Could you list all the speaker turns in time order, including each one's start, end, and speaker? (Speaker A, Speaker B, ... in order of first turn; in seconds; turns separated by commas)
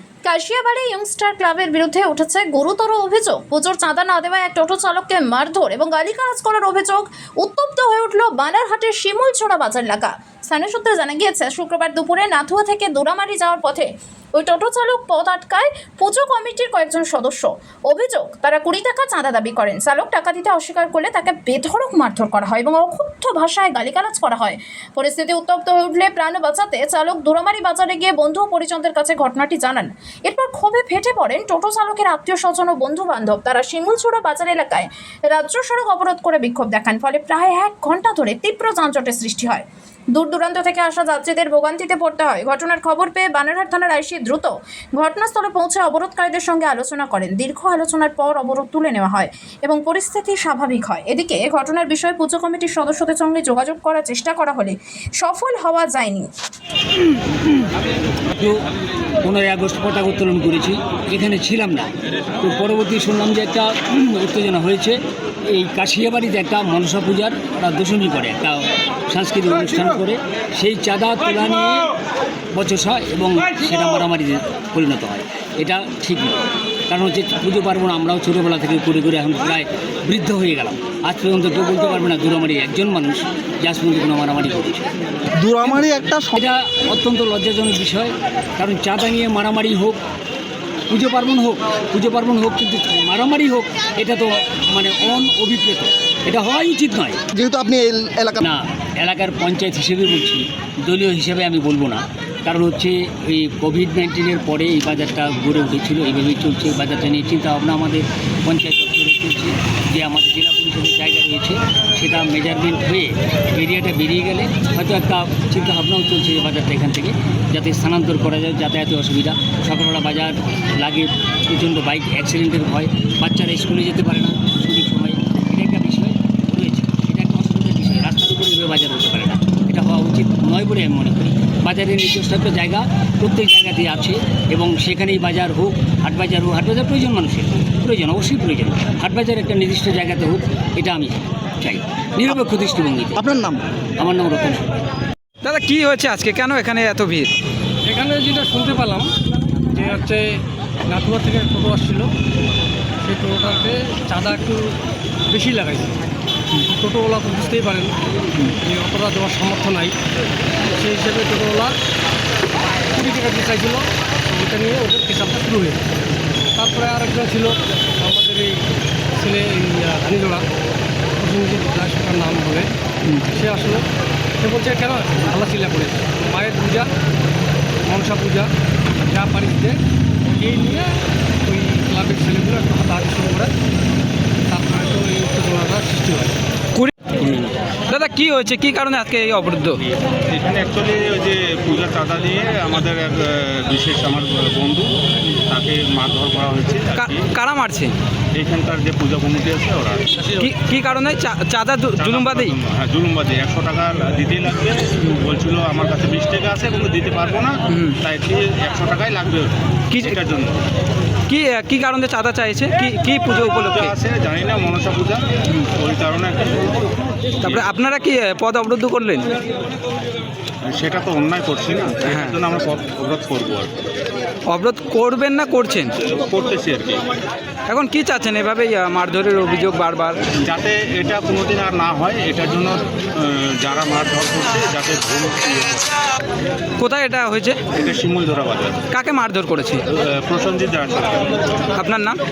Speaker A: 0.2-56.3, Speaker B: 59.2-65.0, Speaker B: 65.5-71.9, Speaker B: 72.5-84.8, Speaker C: 85.3-86.3, Speaker B: 86.3-90.0, Speaker B: 90.9-97.2, Speaker C: 97.3-98.4, Speaker B: 98.4-143.3, Speaker C: 143.2-143.7, Speaker B: 144.0-144.7, Speaker D: 145.4-147.3, Speaker E: 147.8-149.1, Speaker E: 149.7-152.1, Speaker E: 153.1-154.8, Speaker E: 155.3-156.0, Speaker E: 156.7-157.9, Speaker E: 158.6-160.0, Speaker E: 160.7-161.7, Speaker E: 162.9-165.8, Speaker E: 166.6-168.6, Speaker E: 169.2-170.4, Speaker E: 171.2-172.7, Speaker E: 173.3-173.8, Speaker E: 174.4-176.9, Speaker E: 177.8-178.5, Speaker E: 179.1-179.8, Speaker E: 180.4-183.5, Speaker E: 184.5-186.4, Speaker D: 186.8-189.8, Speaker F: 189.8-197.3, Speaker D: 196.9-197.9, Speaker F: 198.3-200.4, Speaker D: 200.4-202.6, Speaker F: 202.0-210.7, Speaker D: 207.7-208.0, Speaker D: 209.9-210.2, Speaker D: 211.3-213.9, Speaker F: 213.6-216.8, Speaker F: 217.4-217.7, Speaker D: 217.4-219.3, Speaker F: 220.6-223.9, Speaker D: 222.0-222.4, Speaker D: 224.5-225.9, Speaker F: 226.0-227.1, Speaker D: 227.7-230.2, Speaker F: 230.4-235.9, Speaker D: 236.8-237.7, Speaker F: 237.8-238.8, Speaker D: 238.9-239.8, Speaker F: 239.9-241.4, Speaker D: 241.8-242.2